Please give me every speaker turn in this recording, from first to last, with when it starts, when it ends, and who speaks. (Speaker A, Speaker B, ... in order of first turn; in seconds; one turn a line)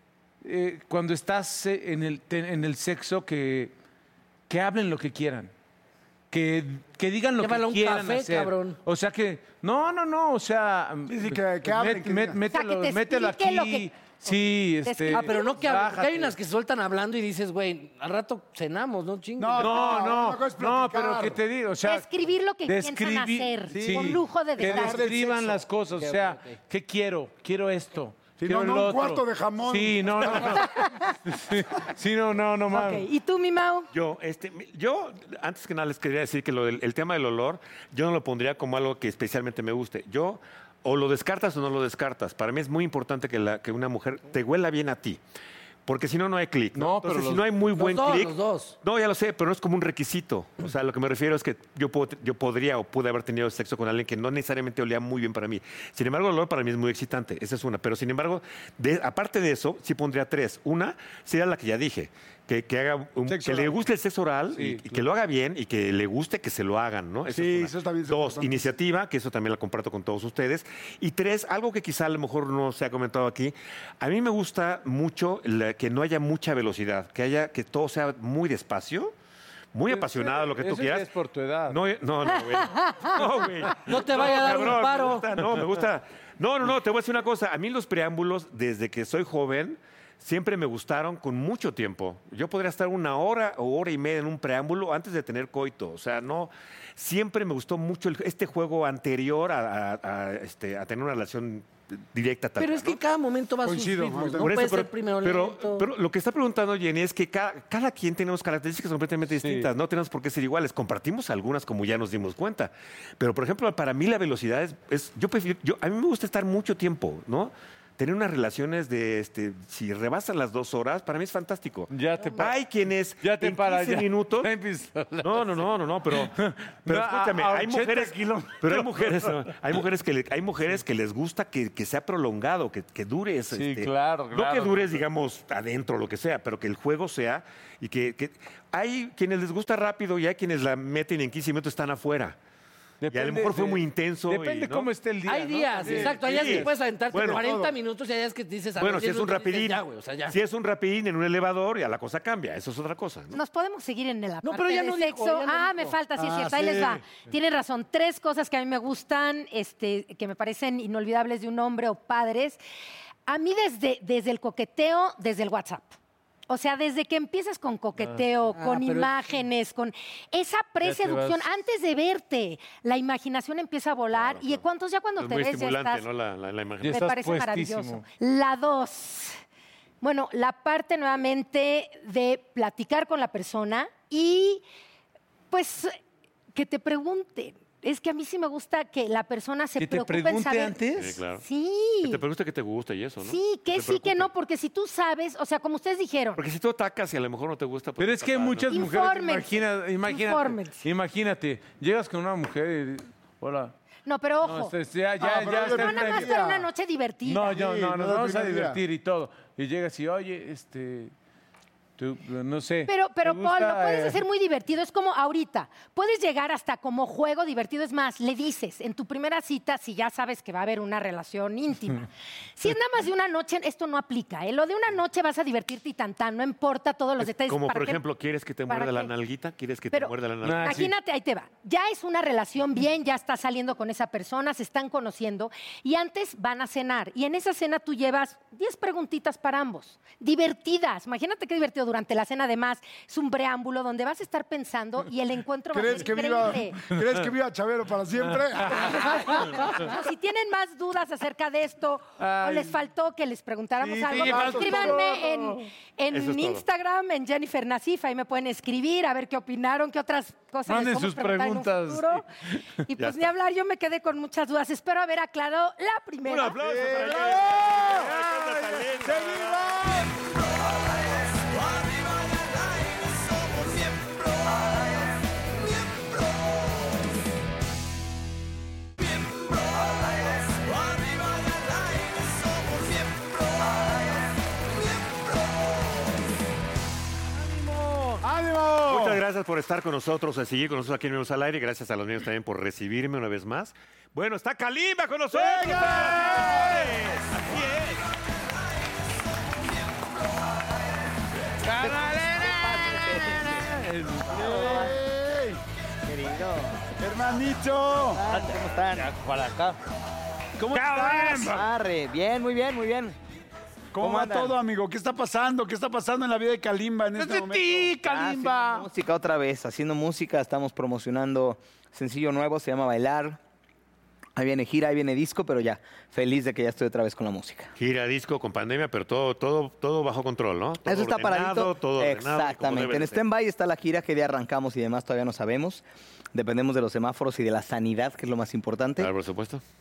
Speaker A: 0.4-3.7
Speaker A: 4.5-5.5
Speaker A: 6.3-16.3
Speaker B: 7.4-8.8
Speaker C: 11.1-12.4
Speaker D: 12.5-13.9
Speaker D: 14.8-15.6
Speaker B: 15.1-20.2
Speaker C: 19.4-21.4
Speaker A: 19.6-22.1
Speaker D: 21.8-25.1
Speaker A: 22.6-33.1
Speaker C: 23.7-25.6
Speaker B: 25.9-26.6
Speaker C: 28.4-30.7
Speaker D: 30.6-31.1
Speaker D: 32.7-33.9
Speaker E: 33.9-45.2
Speaker E: 45.9-79.1
Speaker A: 46.7-47.4
Speaker B: 47.7-48.8
Speaker C: 63.3-63.8
Speaker A: 64.5-64.9
Speaker C: 67.3-68.7
Speaker E: 79.7-81.1
Speaker A: 79.9-81.8
Speaker E: 81.7-103.0
Speaker D: 82.6-83.2
Speaker B: 83.8-85.3
Speaker B: 102.6-105.9
Speaker C: 103.6-104.6
Speaker E: 104.4-124.5
Speaker A: 121.9-122.5
Speaker B: 122.2-122.5
Speaker A: 123.2-125.6
Speaker E: 125.2-142.4
Speaker A: 126.1-129.5
Speaker A: 133.5-135.0
Speaker A: 143.0-146.7
Speaker E: 143.1-144.9
Speaker B: 145.2-150.4
Speaker E: 145.9-147.4
Speaker C: 147.2-147.7
Speaker E: 148.8-153.4
Speaker D: 153.3-162.6
Speaker B: 154.4-156.0
Speaker C: 156.2-157.0
Speaker D: 163.2-165.9
Speaker D: 166.5-176.0
Speaker B: 168.5-169.4
Speaker A: 170.8-171.4
Speaker E: 174.1-174.6
Speaker E: 175.2-177.0
Speaker A: 176.8-178.0
Speaker D: 176.9-179.4
Speaker D: 180.0-184.6
Speaker D: 185.5-185.9
Speaker D: 186.5-190.8
Speaker A: 189.8-191.2
Speaker E: 191.0-191.4
Speaker D: 191.3-192.2
Speaker E: 192.0-194.3
Speaker D: 193.2-196.4
Speaker E: 196.3-198.9
Speaker A: 198.0-203.7
Speaker D: 198.7-200.8
Speaker D: 204.1-204.7
Speaker A: 204.4-206.4
Speaker C: 205.2-206.7
Speaker D: 205.2-207.6
Speaker A: 207.2-211.1
Speaker C: 207.5-208.8
Speaker A: 212.0-214.2
Speaker D: 212.9-228.0
Speaker E: 227.2-230.8
Speaker D: 228.7-229.1
Speaker D: 229.9-246.9
Speaker A: 230.4-230.9
Speaker C: 245.7-249.2
Speaker A: 248.7-249.2
Speaker D: 248.8-262.2
Speaker A: 252.2-252.7
Speaker A: 253.8-255.5
Speaker C: 253.8-255.1
Speaker E: 256.1-256.6
Speaker A: 260.7-262.5
Speaker D: 262.9-266.6
Speaker E: 263.0-263.3
Speaker E: 266.2-269.8
Speaker C: 266.6-270.0
Speaker C: 288.2-289.2
Speaker E: 288.9-298.0
Speaker C: 295.3-297.0
Speaker A: 301.6-304.9
Speaker F: 301.8-303.7
Speaker C: 304.3-305.6
Speaker F: 304.3-304.9
Speaker F: 306.0-306.9
Speaker C: 307.0-308.2
Speaker F: 308.1-309.1
Speaker A: 308.3-309.8
Speaker A: 310.6-311.7
Speaker C: 310.7-311.6
Speaker F: 311.4-313.1
Speaker C: 313.9-317.9
Speaker F: 314.0-314.6
Speaker A: 317.1-318.9
Speaker F: 317.9-323.4
Speaker F: 324.4-327.7
Speaker E: 327.8-333.2
Speaker F: 330.8-335.8
Speaker F: 336.3-339.1
Speaker E: 339.0-339.6